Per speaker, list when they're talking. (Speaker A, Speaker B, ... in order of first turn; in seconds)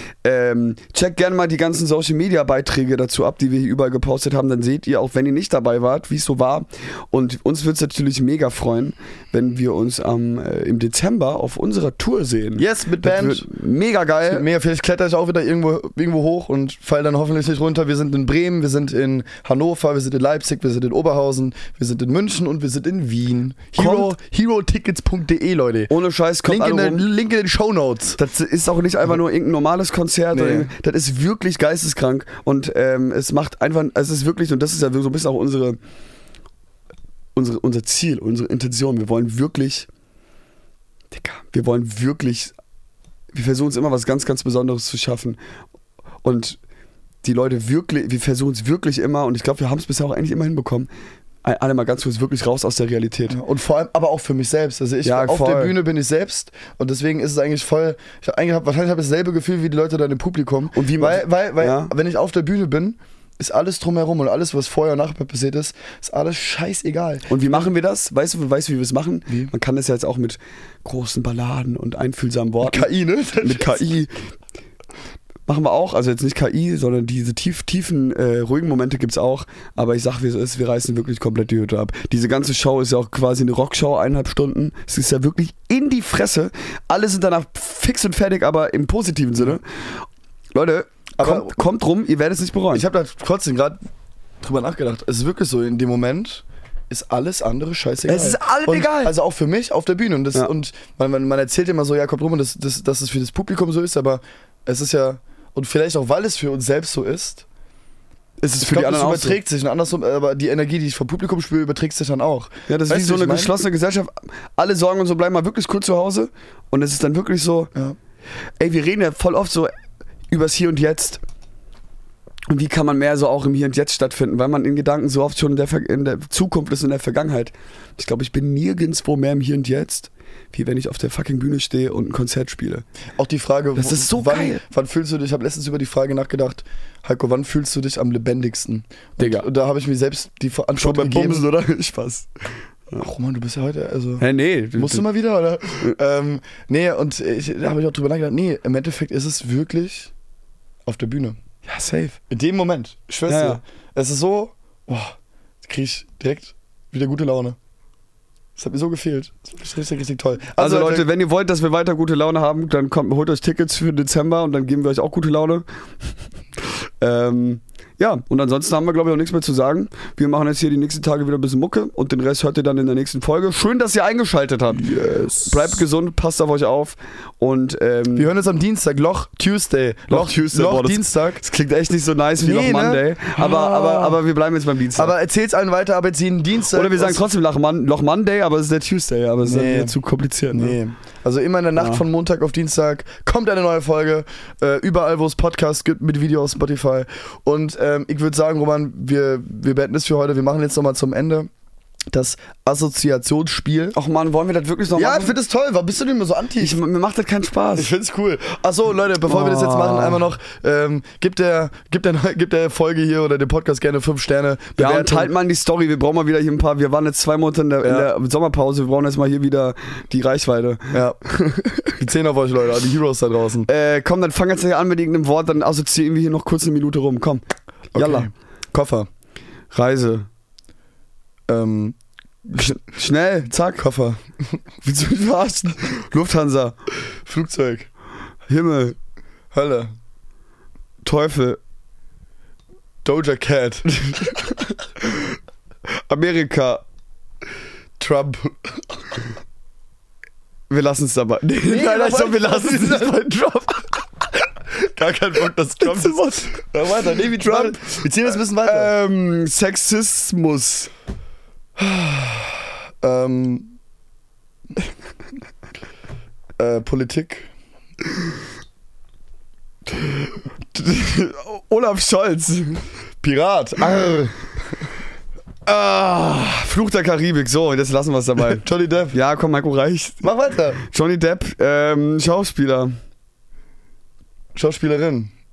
Speaker A: 0.2-14.5, 23.8-24.1, 25.9-27.1, 28.2-35.8, 37.4-39.9, 41.1-42.5, 43.3-45.4, 46.2-46.6, 47.2-50.9, 51.4-53.4, 55.0-55.8, 60.7-61.9, 67.3-72.9, 73.4-74.1, 75.5-92.8, 98.0-99.2, 108.4-109.4, 112.7-117.7, 118.6-119.7, 120.3-121.2, 122.5-132.8, 133.8-134.6, 139.2-139.5, 140.8-142.3, 144.2-145.1, 151.7-152.1, 153.3-153.6, 160.6-165.7, 166.6-178.3, 180.1-185.1, 186.7-190.8, 191.8-192.0, 203.9-205.3, 206.6-207.9, 209.2-210.3, 214.8-221.8, 223.7-227.4, 227.9-228.3, 229.7-230.3, 232.6-233.8, 234.8-236.8, 238.5-239.0, 241.0-241.6, 244.1-244.4, 245.0-245.4, 246.1-246.8, 250.7-254.0, 255.8-256.6, 257.1-260.9, 269.9-272.9, 275.7-282.9
Speaker B: 12.6-13.5, 14.2-25.9, 26.5-28.2, 30.3-30.7, 53.3-67.7, 72.6-73.8, 91.2-91.7, 92.7-93.8, 94.4-107.5, 108.6-113.5, 133.2-141.5, 143.0-150.1, 150.8-151.4, 152.1-157.6, 158.6-161.1, 174.7-175.8, 178.1-181.4, 182.4-184.2, 184.9-187.2, 189.4-190.0, 190.5-201.5, 202.1-204.0, 205.0-206.8, 207.8-215.3, 217.8-218.1, 220.9-221.2, 221.8-223.7, 227.9-229.1, 231.5-232.8, 233.6-234.6, 237.2-237.9, 239.5-239.9, 243.1-244.3, 248.0-248.8, 251.6-253.2, 254.8-258.9, 261.8-263.7, 266.6-267.5, 273.2-274.5, 278.4-279.2, 280.2-280.8, 284.6-285.3